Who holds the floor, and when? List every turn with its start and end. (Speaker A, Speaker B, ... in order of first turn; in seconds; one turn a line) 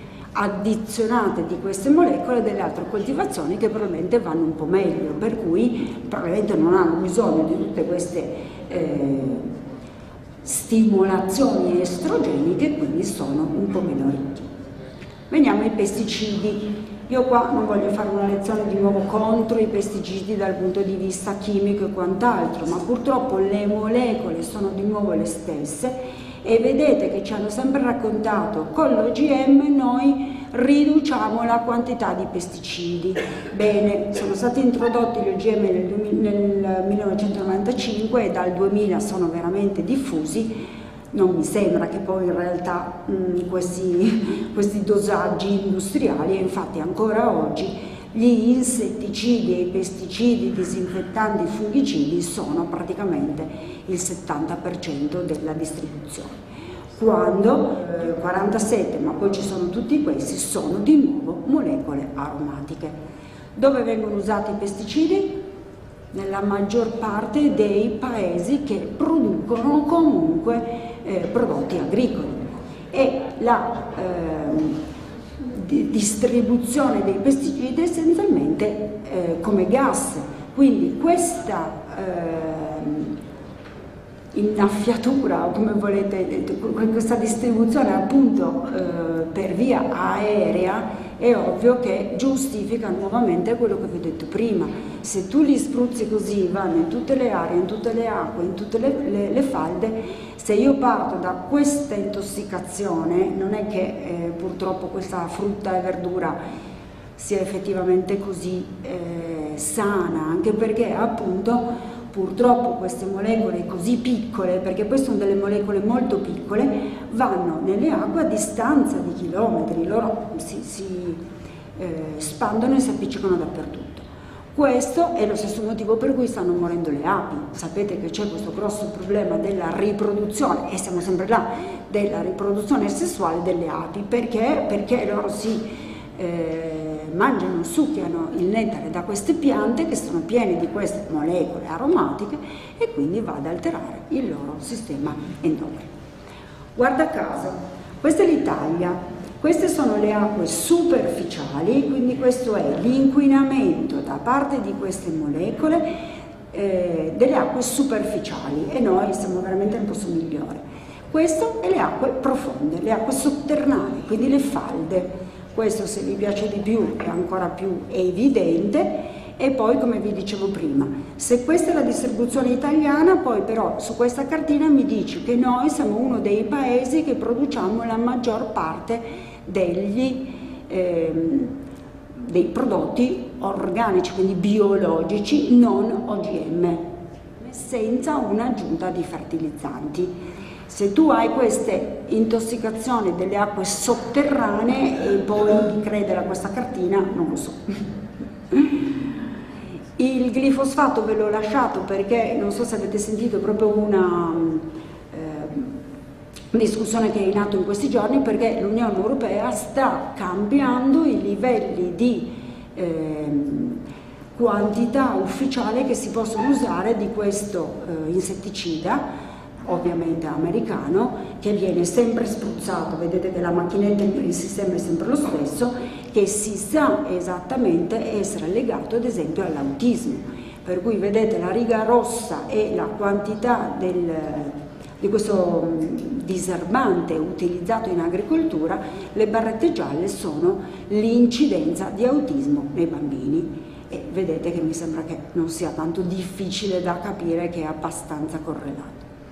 Speaker A: 0.3-9.5
Speaker A: 10.4-14.5
Speaker A: 15.3-56.4
Speaker A: 57.0-62.9
Speaker A: 63.6-65.4
Speaker A: 66.1-74.8
Speaker A: 75.4-83.2
Speaker A: 84.3-106.4
Speaker A: 107.2-121.2
Speaker A: 121.8-145.9
Speaker A: 146.8-155.9
Speaker A: 156.5-181.5
Speaker A: 182.2-186.8
Speaker A: 187.5-190.1
Speaker A: 190.7-197.8
Speaker A: 200.0-205.7
Speaker A: 206.5-213.8
Speaker A: 214.4-219.0
Speaker A: 219.6-249.0